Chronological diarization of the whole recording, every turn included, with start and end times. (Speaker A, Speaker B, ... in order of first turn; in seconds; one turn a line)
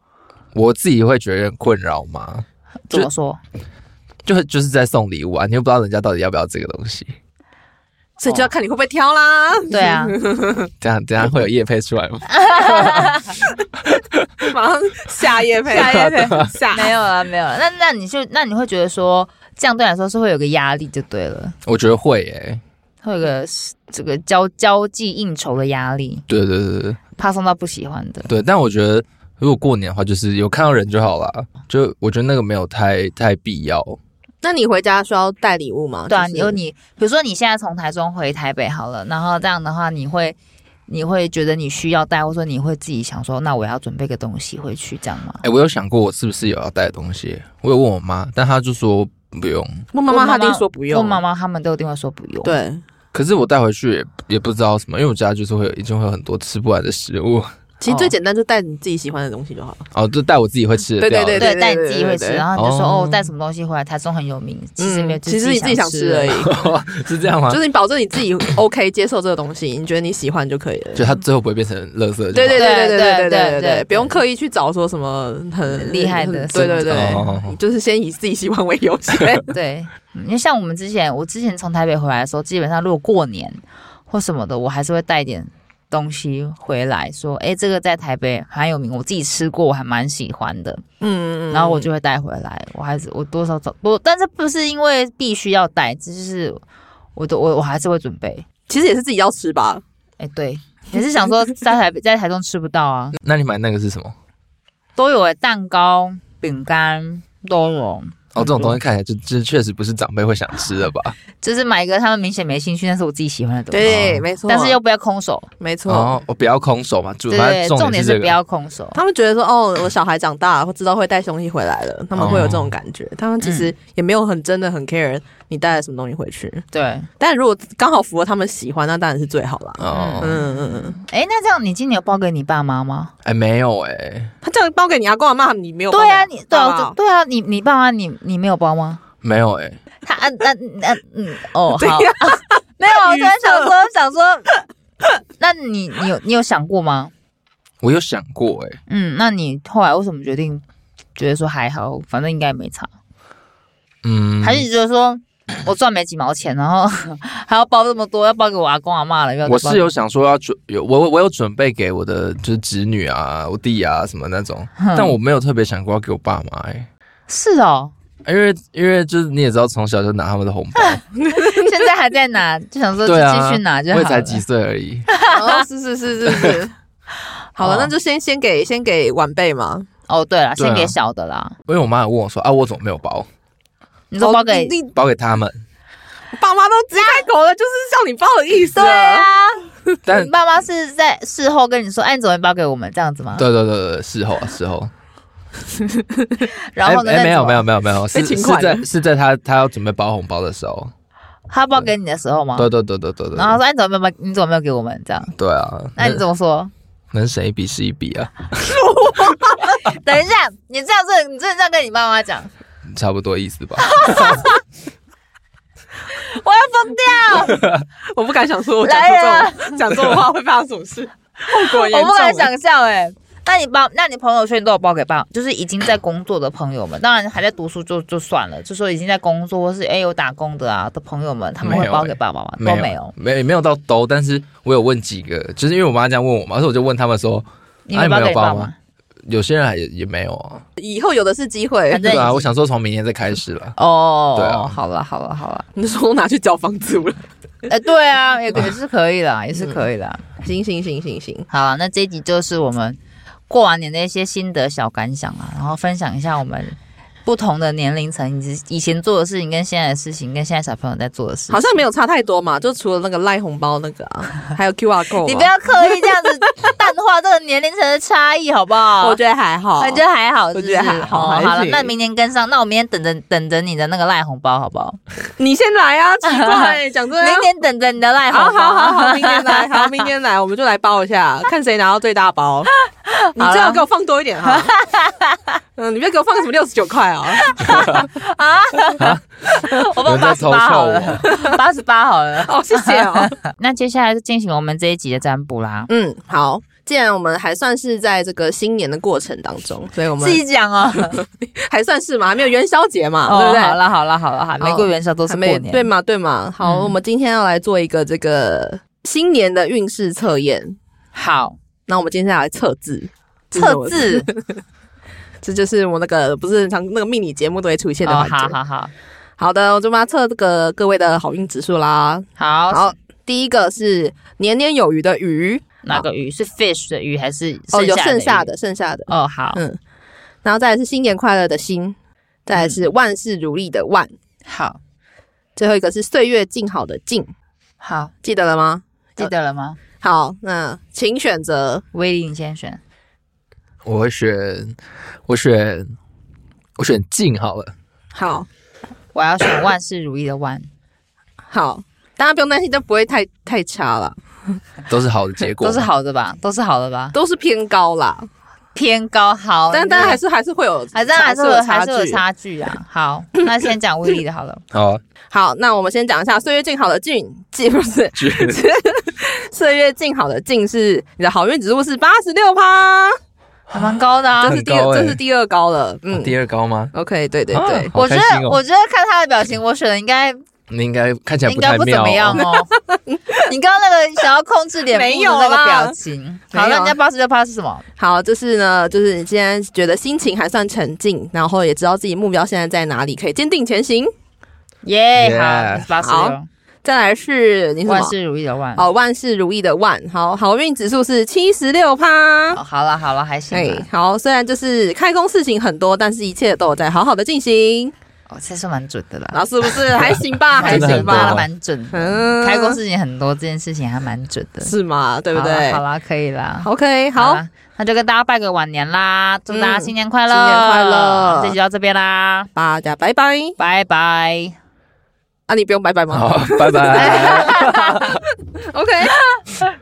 Speaker A: 0.5-3.1
Speaker B: 2.9-3.4
Speaker A: 4.2-7.2
Speaker C: 8.2-10.7
Speaker B: 9.7-10.2
Speaker A: 10.8-13.3
Speaker B: 12.3-13.3
Speaker A: 13.8-14.5
Speaker C: 14.5-16.9
Speaker B: 15.7-21.6
Speaker A: 15.8-16.5
Speaker A: 21.6-22.6
Speaker B: 23.0-26.2
Speaker A: 26.3-27.0
Speaker B: 27.2-28.3
Speaker A: 28.3-34.0
Speaker C: 34.4-36.6
Speaker B: 36.1-40.4
Speaker B: 40.9-45.4
Speaker A: 45.4-49.9
Speaker C: 49.9-51.2
Speaker B: 50.1-52.5
Speaker C: 52.4-52.8
Speaker A: 53.1-57.5
Speaker C: 57.8-59.9
Speaker B: 57.9-58.1
Speaker A: 59.9-61.5
Speaker C: 61.0-62.4
Speaker B: 61.4-66.3
Speaker A: 62.6-63.3
Speaker C: 64.8-66.6
Speaker A: 66.3-67.6
Speaker C: 67.5-71.1
Speaker A: 71.0-72.7
Speaker C: 72.3-79.5
Speaker B: 72.5-74.2
Speaker B: 75.7-77.3
Speaker A: 76.9-77.5
Speaker B: 79.5-90.8
Speaker C: 91.0-91.9
Speaker B: 91.5-96.6
Speaker B: 97.2-98.5
Speaker C: 98.7-99.8
Speaker B: 100.2-103.2
Speaker A: 103.2-104.2
Speaker B: 105.0-108.8
Speaker A: 108.3-111.2
Speaker B: 111.4-115.5
Speaker C: 113.7-114.8
Speaker A: 113.9-114.2
Speaker C: 115.6-116.2
Speaker A: 115.9-118.4
Speaker B: 117.3-119.0
Speaker C: 119.0-126.7
Speaker A: 122.2-122.7
Speaker B: 123.4-123.7
Speaker B: 126.7-127.1
Speaker C: 127.2-131.0
Speaker A: 129.8-130.4
Speaker B: 129.9-133.1
Speaker A: 133.2-134.3
Speaker C: 134.4-136.9
Speaker B: 135.9-139.0
Speaker A: 139.2-139.8
Speaker B: 140.0-144.5
Speaker C: 141.7-143.7
Speaker B: 145.4-147.1
Speaker A: 147.8-148.8
Speaker B: 148.9-150.6
Speaker B: 151.2-152.9
Speaker A: 154.0-154.7
Speaker B: 154.4-159.9
Speaker A: 159.5-166.9
Speaker B: 164.8-165.2
Speaker B: 167.3-167.9
Speaker A: 168.2-171.0
Speaker B: 170.8-174.4
Speaker C: 171.2-171.7
Speaker A: 173.1-175.1
Speaker B: 175.1-175.6
Speaker C: 175.2-176.7
Speaker A: 176.3-176.6
Speaker C: 177.6-179.9
Speaker B: 177.6-177.9
Speaker B: 180.1-181.6
Speaker A: 180.6-180.9
Speaker A: 181.7-183.3
Speaker B: 184.1-184.8
Speaker C: 184.2-184.9
Speaker A: 184.9-185.6
Speaker C: 186.3-189.3
Speaker B: 186.9-187.3
Speaker B: 188.8-193.5
Speaker A: 190.1-190.3
Speaker A: 193.4-194.9
Speaker C: 195.8-196.4
Speaker B: 196.8-197.6
Speaker A: 196.8-200.9
Speaker C: 198.1-198.9
Speaker B: 201.5-202.7
Speaker A: 202.6-203.6
Speaker B: 203.3-205.3
Speaker A: 205.4-206.2
Speaker B: 206.0-206.7
Speaker A: 207.1-208.7
Speaker C: 208.8-209.6
Speaker B: 209.3-212.5
Speaker A: 212.9-214.5
Speaker B: 213.8-214.6
Speaker B: 216.1-217.7
Speaker C: 218.1-222.5
Speaker B: 218.8-220.2
Speaker B: 221.5-233.1
Speaker A: 231.6-238.7
Speaker B: 237.9-238.8
Speaker A: 239.3-240.6
Speaker C: 240.8-242.0
Speaker B: 241.9-242.5
Speaker A: 242.0-243.8
Speaker B: 243.8-245.7
Speaker A: 244.3-244.8
Speaker C: 245.8-247.2
Speaker B: 247.7-250.2
Speaker C: 249.6-249.8
Speaker C: 250.4-251.5
Speaker B: 251.5-253.0
Speaker B: 253.5-261.6
Speaker C: 261.5-266.2
Speaker B: 265.2-269.2
Speaker C: 269.0-270.0
Speaker B: 269.8-275.0
Speaker C: 270.5-271.9
Speaker C: 275.4-277.5
Speaker B: 276.3-280.1
Speaker C: 278.3-282.7
Speaker B: 283.1-283.8
Speaker C: 283.4-284.7
Speaker B: 284.5-285.4
Speaker C: 285.8-287.8
Speaker B: 287.4-295.9
Speaker A: 287.6-288.1
Speaker A: 289.0-289.2
Speaker A: 290.0-291.3
Speaker C: 291.3-291.6
Speaker C: 292.4-293.4
Speaker C: 295.9-300.4
Speaker B: 300.2-301.2
Speaker C: 301.1-303.8
Speaker B: 303.3-305.9
Speaker C: 304.6-310.8
Speaker B: 306.6-307.0
Speaker B: 311.1-311.6
Speaker C: 311.9-314.5
Speaker B: 313.5-314.3
Speaker C: 315.4-318.6
Speaker B: 318.0-318.9
Speaker C: 319.4-326.1
Speaker B: 322.4-322.9
Speaker B: 325.8-328.5
Speaker C: 327.7-329.8
Speaker B: 329.1-329.6
Speaker C: 330.4-331.9
Speaker C: 332.5-334.1
Speaker B: 332.6-332.8
Speaker B: 334.5-334.8
Speaker C: 335.6-337.3
Speaker B: 337.8-338.1
Speaker C: 338.2-339.3
Speaker B: 339.2-339.8
Speaker C: 340.0-341.9
Speaker B: 341.9-342.8
Speaker A: 343.9-344.8
Speaker A: 345.3-345.9
Speaker A: 346.8-347.7
Speaker C: 348.1-348.5
Speaker B: 349.1-350.7
Speaker C: 351.5-354.2
Speaker A: 354.9-355.9
Speaker B: 355.6-357.2
Speaker C: 357.1-358.3
Speaker B: 358.8-360.2
Speaker C: 359.7-362.2
Speaker B: 360.9-364.6
Speaker A: 364.7-365.0
Speaker C: 365.3-373.2
Speaker A: 368.2-368.6
Speaker A: 373.7-375.2
Speaker B: 373.7-374.6
Speaker C: 374.4-376.4
Speaker A: 376.1-376.9
Speaker C: 376.9-377.9
Speaker A: 377.5-378.6
Speaker B: 377.6-380.4
Speaker A: 380.7-382.4
Speaker B: 381.5-382.7
Speaker C: 382.4-383.5
Speaker B: 383.4-387.9
Speaker C: 384.9-386.0
Speaker C: 386.5-387.0
Speaker C: 388.0-394.1
Speaker B: 394.8-396.5
Speaker A: 395.2-395.9
Speaker C: 396.0-398.1
Speaker B: 397.9-398.9
Speaker C: 398.8-402.6
Speaker B: 402.5-403.9
Speaker C: 403.5-407.9
Speaker B: 408.3-414.7
Speaker C: 409.3-412.8
Speaker A: 410.6-411.4
Speaker C: 414.6-415.8
Speaker B: 415.3-422.5
Speaker C: 416.6-417.4
Speaker C: 419.5-421.6
Speaker C: 422.6-423.6
Speaker B: 423.6-424.6
Speaker C: 425.5-429.2
Speaker A: 426.1-428.2
Speaker B: 426.9-428.1